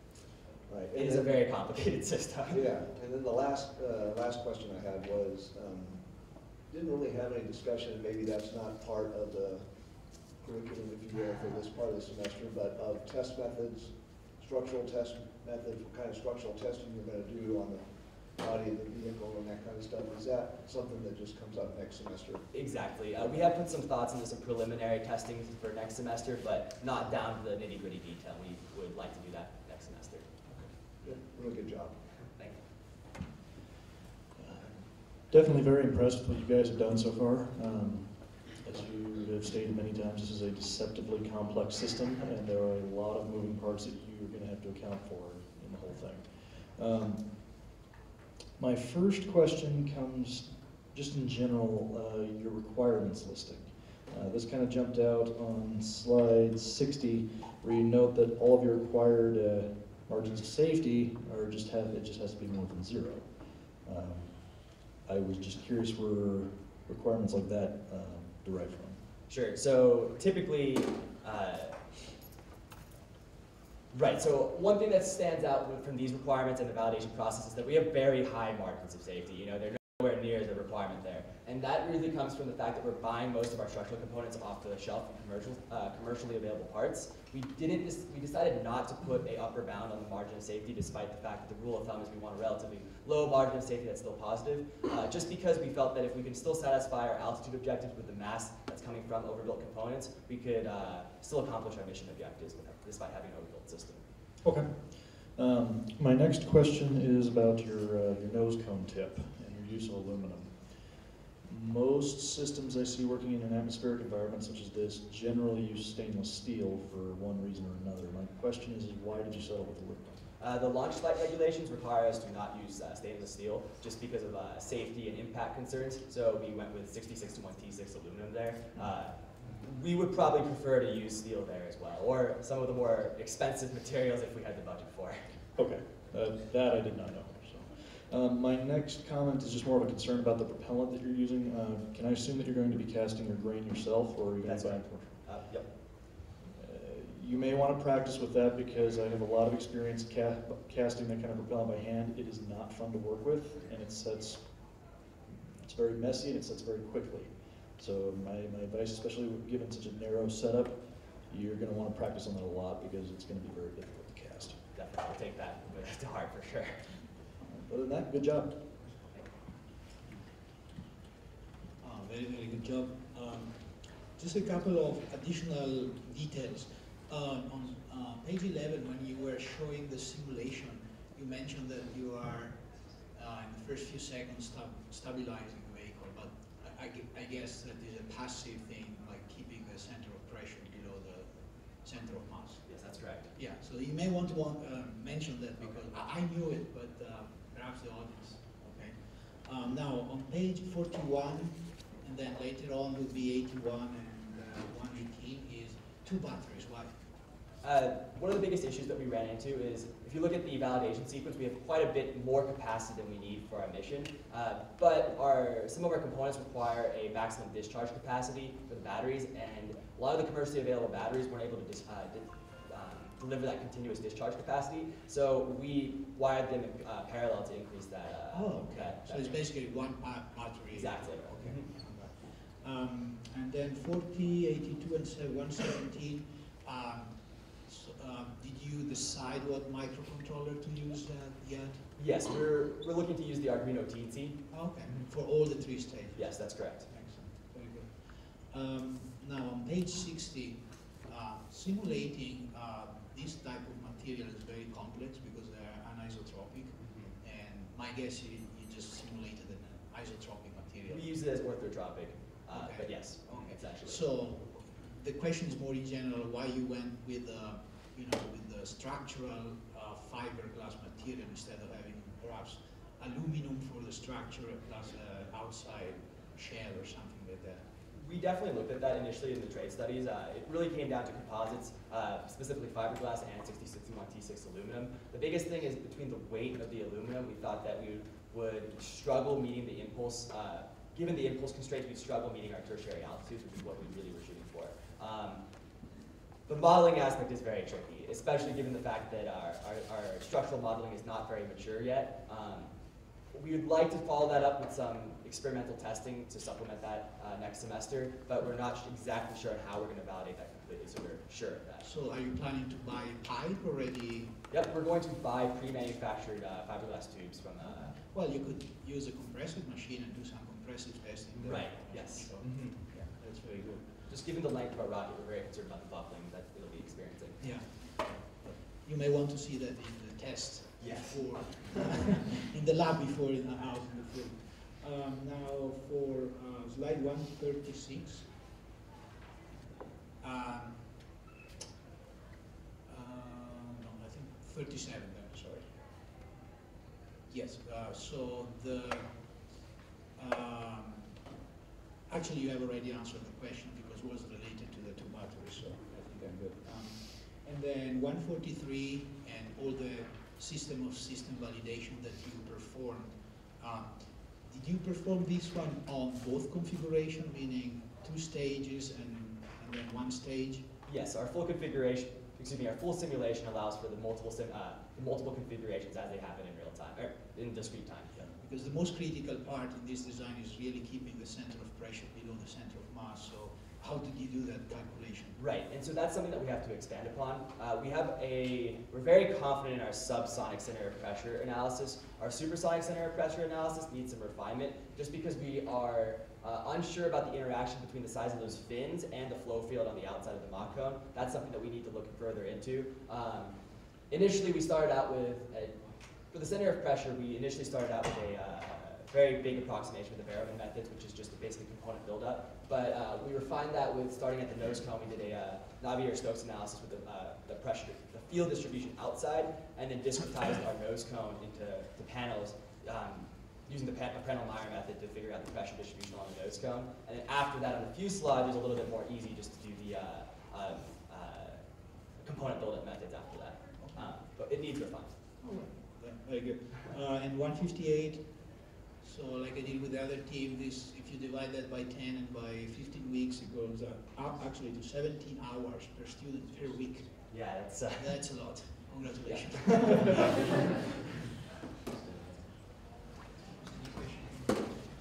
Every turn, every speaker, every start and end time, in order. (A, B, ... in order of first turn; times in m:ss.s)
0:00.7-0:01.4 A
0:00.9-0:02.6 B
0:02.5-0:22.4 A
0:22.5-0:30.3 B
0:31.0-0:31.9 A
0:34.4-0:47.6 C
0:48.6-1:09.0 C
1:09.3-1:11.8 B
1:13.9-1:44.0 B
1:44.4-2:00.3 C
2:00.4-2:15.4 B
2:15.6-2:25.2 C
2:24.4-2:25.7 B
2:26.4-2:44.6 C
2:44.7-2:46.8 B
2:47.4-2:48.6 C
2:51.8-3:02.6 D
3:03.1-3:12.6 D
3:12.7-3:13.3 B
3:13.3-3:26.9 D
3:27.6-3:49.4 B
3:48.3-4:01.9 D
3:50.7-3:51.7 B
4:02.0-4:04.4 B
4:04.5-4:21.1 D
4:06.1-4:06.8 B
4:16.8-4:17.1 B
4:20.9-4:24.0 B
4:22.5-4:37.6 D
4:37.9-4:55.4 B
4:56.5-5:02.7 B
5:03.3-5:11.8 B
5:11.8-5:14.3 D
5:14.5-5:18.0 B
5:17.6-5:23.9 D
5:21.4-5:22.7 B
5:24.1-5:27.4 B
5:27.4-5:38.3 D
5:30.8-5:31.3 B
5:40.2-5:41.0 D
5:42.8-5:45.7 D
5:47.3-5:49.1 D
5:50.1-5:51.2 D
5:52.1-6:10.6 D
6:10.8-6:18.1 B
6:18.2-6:25.4 D
6:25.4-6:43.5 B
6:44.1-6:45.8 B
6:46.3-7:11.6 B
7:12.2-7:15.1 B
7:13.8-7:14.1 D
7:15.4-7:18.2 D
7:19.0-7:27.2 D
7:27.3-7:28.2 B
7:28.0-7:30.7 D
7:29.2-7:30.3 B
7:33.6-7:34.6 D